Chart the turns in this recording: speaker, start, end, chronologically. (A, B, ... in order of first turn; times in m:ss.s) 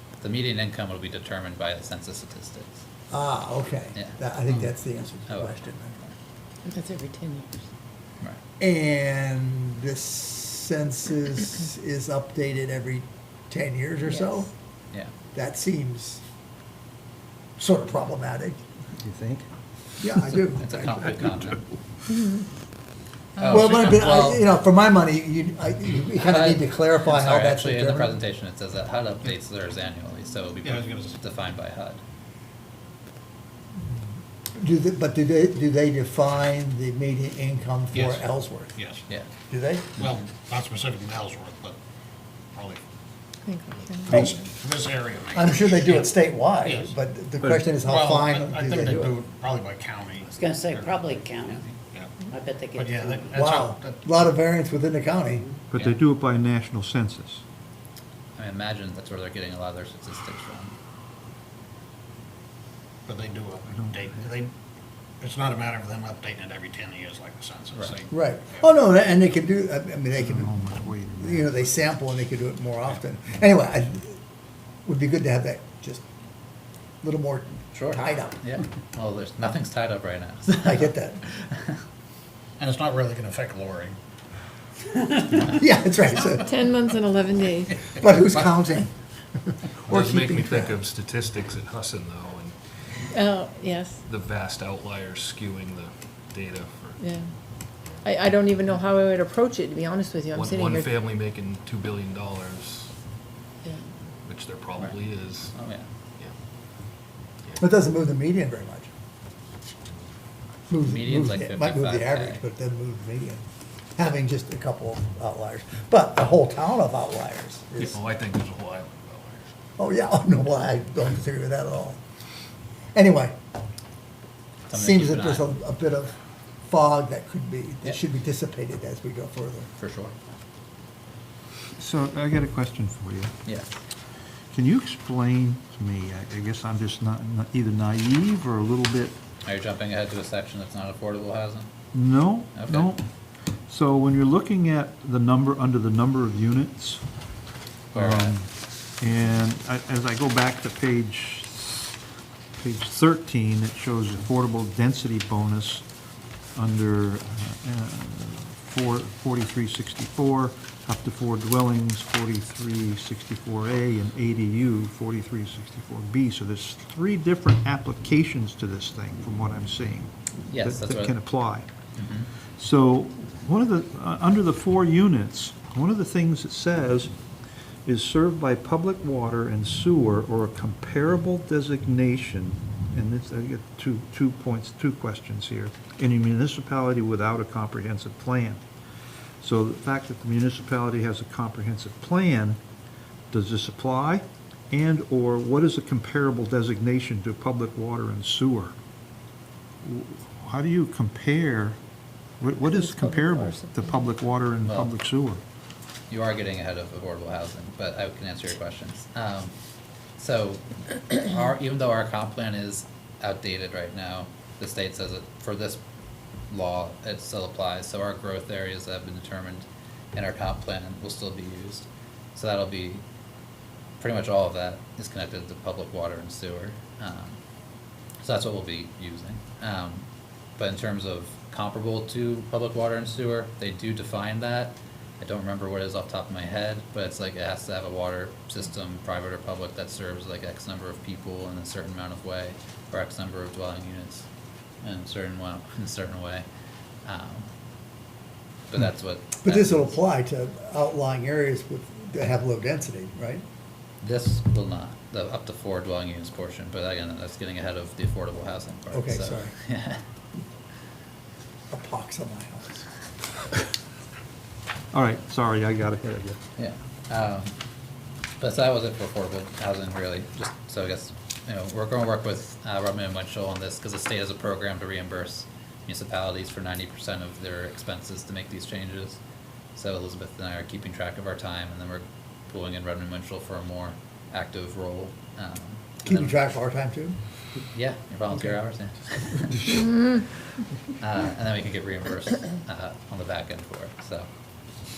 0:00.2-0:02.8 A
0:03.1-0:06.1 B
0:04.0-0:04.7 A
0:05.3-0:05.6 A
0:06.6-0:07.6 C
0:08.6-0:14.5 B
0:14.1-0:14.4 C
0:15.3-0:16.2 B
0:17.6-0:18.6 B
0:19.0-0:19.5 D
0:20.0-0:21.4 B
0:20.5-0:21.6 A
0:23.4-0:24.4 A
0:23.5-0:28.2 B
0:26.2-0:32.0 A
0:30.6-0:31.2 E
0:33.8-0:34.0 B
0:34.6-0:38.7 B
0:37.9-0:39.0 E
0:39.5-0:40.0 B
0:40.0-0:41.8 E
0:42.6-0:42.8 E
0:43.4-0:44.4 C
0:44.0-0:46.9 E
0:44.1-0:44.4 B
0:45.3-0:49.2 B
0:47.8-0:52.1 E
0:50.4-0:51.6 F
0:52.3-0:53.3 F
0:52.7-0:54.2 E
0:53.1-0:55.5 B
0:55.7-0:57.4 D
0:58.4-1:00.7 A
1:03.1-1:04.5 E
1:03.7-1:04.2 D
1:05.2-1:08.6 E
1:08.1-1:10.5 B
1:10.2-1:11.5 D
1:11.2-1:14.2 B
1:14.9-1:16.0 B
1:17.0-1:18.6 B
1:17.7-1:21.8 A
1:20.5-1:21.2 B
1:22.6-1:24.0 E
1:25.0-1:25.4 E
1:25.4-1:26.5 B
1:26.4-1:27.8 C
1:28.0-1:28.9 B
1:29.5-1:30.8 B
1:29.8-1:32.6 G
1:33.1-1:34.0 C
1:34.1-1:38.0 G
1:37.0-1:40.9 C
1:40.3-1:42.9 G
1:44.2-1:46.4 G
1:45.5-1:45.9 A
1:47.6-1:48.9 B
1:50.7-1:53.4 B
1:50.8-1:52.4 A
1:54.0-1:58.0 B
1:57.8-1:59.5 G
1:59.8-2:02.0 B
2:03.0-2:03.4 B
2:04.7-2:05.5 A
2:04.7-2:06.2 B
2:06.7-2:09.7 B
2:09.8-2:10.1 A
2:11.8-2:13.4 D
2:13.5-2:13.8 A
2:14.5-2:19.2 D
2:19.4-2:21.7 A
2:21.9-2:23.0 D
2:22.5-2:22.9 A
2:23.7-2:27.0 D
2:27.9-2:32.0 D
2:27.9-2:28.4 A
2:32.6-2:35.8 D
2:36.6-2:51.7 D
2:50.5-2:51.2 A
2:52.0-2:52.3 A
2:52.6-2:57.1 D
2:57.8-3:08.6 D
3:09.4-3:12.6 D
3:13.3-3:18.8 D
3:19.8-3:21.8 D
3:22.4-3:25.4 D
3:22.7-3:24.0 C
3:24.6-3:24.9 A
3:26.1-3:29.5 A
3:30.2-3:35.8 A
3:36.5-3:43.0 A
3:44.0-3:47.4 A
3:48.2-4:04.3 A
4:04.8-4:06.5 A
4:07.0-4:07.5 A
4:08.7-4:10.0 A
4:09.4-4:13.4 B
4:14.0-4:20.0 A
4:18.9-4:19.6 B
4:21.7-4:22.8 B
4:24.9-4:26.4 D
4:26.6-4:27.6 A
4:28.4-4:39.2 A
4:39.8-4:46.4 A
4:46.0-4:47.2 B
4:47.7-4:49.7 A
4:51.0-4:54.3 A